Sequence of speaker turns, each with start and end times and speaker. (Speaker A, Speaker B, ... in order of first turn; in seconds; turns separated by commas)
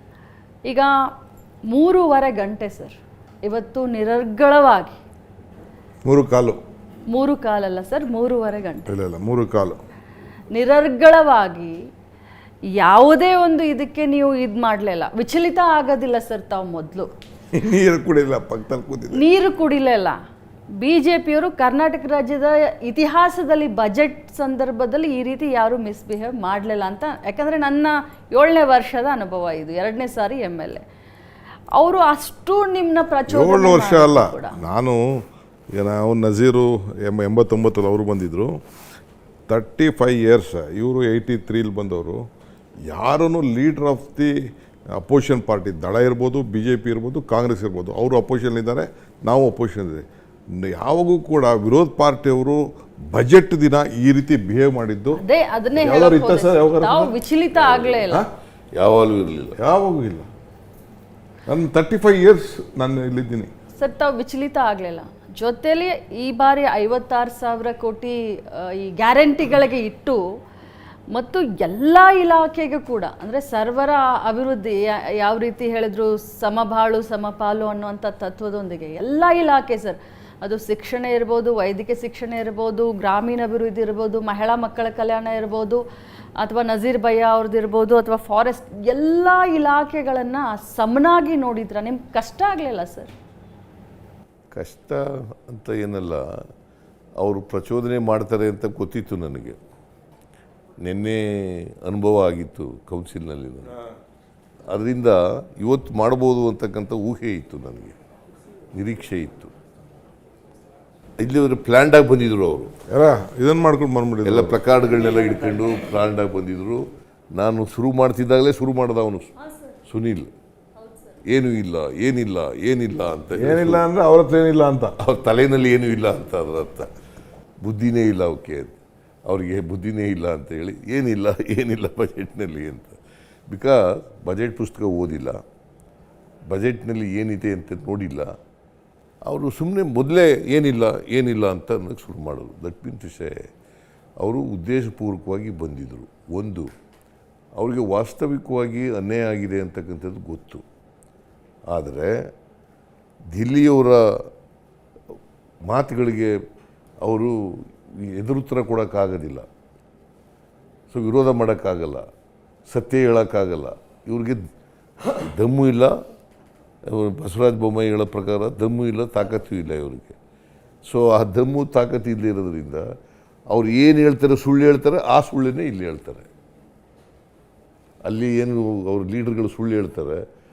Speaker A: 0.7-0.9, Speaker A: 1.7-5.0, Speaker B: 6.0-6.6, Speaker A: 7.1-8.9, Speaker B: 8.9-9.8, Speaker A: 10.5-11.8, Speaker A: 12.8-17.1, Speaker B: 17.5-19.2, Speaker A: 19.1-20.2, Speaker A: 20.8-30.8, Speaker A: 31.7-34.5, Speaker B: 33.3-35.0, Speaker B: 35.7-38.5, Speaker B: 39.5-42.2, Speaker B: 42.9-44.3, Speaker B: 45.0-50.0, Speaker B: 50.5-55.2, Speaker A: 55.1-58.2, Speaker B: 55.8-57.1, Speaker C: 57.6-58.0, Speaker C: 58.7-59.5, Speaker B: 59.6-60.3, Speaker B: 61.5-63.5, Speaker A: 63.8-70.2, Speaker A: 71.1-85.8, Speaker A: 86.4-93.1, Speaker C: 94.5-96.2, Speaker C: 97.2-99.6, Speaker C: 100.8-103.7, Speaker C: 104.7-108.0, Speaker C: 108.7-109.5, Speaker C: 111.2-112.7, Speaker B: 112.9-114.6, Speaker C: 114.2-119.3, Speaker C: 119.8-120.3, Speaker C: 121.3-123.8, Speaker B: 123.3-124.9, Speaker C: 125.0-126.9, Speaker C: 127.6-133.0, Speaker C: 133.5-135.4, Speaker C: 136.5-138.3, Speaker C: 139.2-143.5, Speaker C: 144.2-146.7, Speaker C: 147.6-150.6, Speaker C: 151.7-152.1, Speaker C: 153.3-154.0, Speaker C: 155.7-156.3, Speaker C: 157.0-159.4, Speaker C: 160.9-162.0, Speaker C: 162.7-164.4, Speaker C: 165.1-165.9, Speaker C: 166.9-170.1, Speaker C: 170.9-172.8, Speaker C: 173.5-176.3, Speaker C: 178.0-180.2